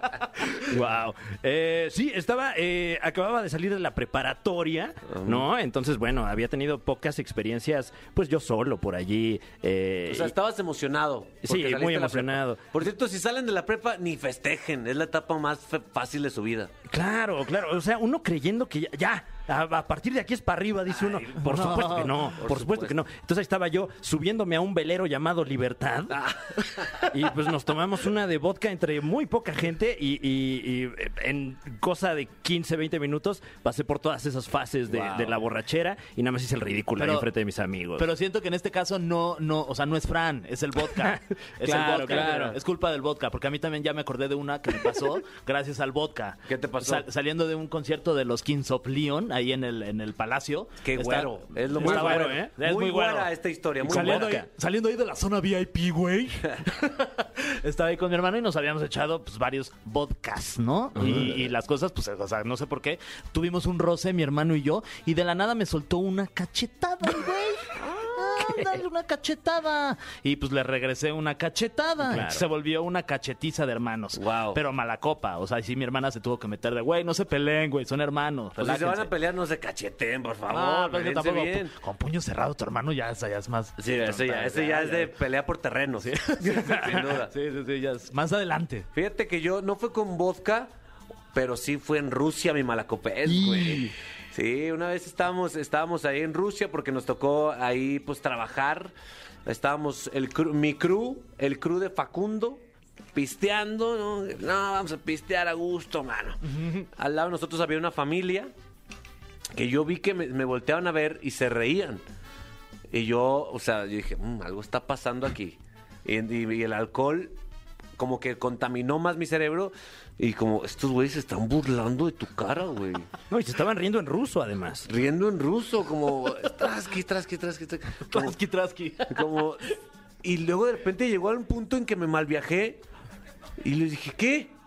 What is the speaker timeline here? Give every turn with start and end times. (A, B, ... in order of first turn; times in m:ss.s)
0:00.6-0:10.3 A
0:05.1-0:05.5 B
0:10.1-0:16.7 B
0:11.4-0:12.6 A
0:16.9-0:38.1 A
0:20.9-0:23.0 B
0:21.4-0:22.1 C
0:26.1-0:27.1 B
0:34.9-0:35.3 B
0:37.0-0:37.3 C
0:38.0-1:19.1 C
0:41.0-0:42.6 A
0:42.0-0:42.5 B
0:46.5-0:47.0 B
0:50.8-0:54.3 B
0:51.8-0:52.5 A
0:53.8-0:54.5 A
1:01.0-1:01.4 A
1:12.0-1:12.4 A
1:14.1-1:14.6 B
1:18.6-1:21.7 B
1:20.5-1:25.1 C
1:23.8-1:27.3 B
1:26.0-1:27.0 A
1:27.4-1:28.9 C
1:28.9-1:30.7 B
1:31.3-1:38.9 B
1:33.3-1:33.9 C
1:39.4-1:42.6 B
1:43.1-1:48.5 B
1:49.5-1:52.0 B
1:52.9-1:57.3 B
1:58.0-2:03.1 B
2:03.3-2:04.9 A
2:04.9-2:08.3 B
2:08.1-2:09.2 C
2:09.1-2:12.8 B
2:13.6-2:14.5 B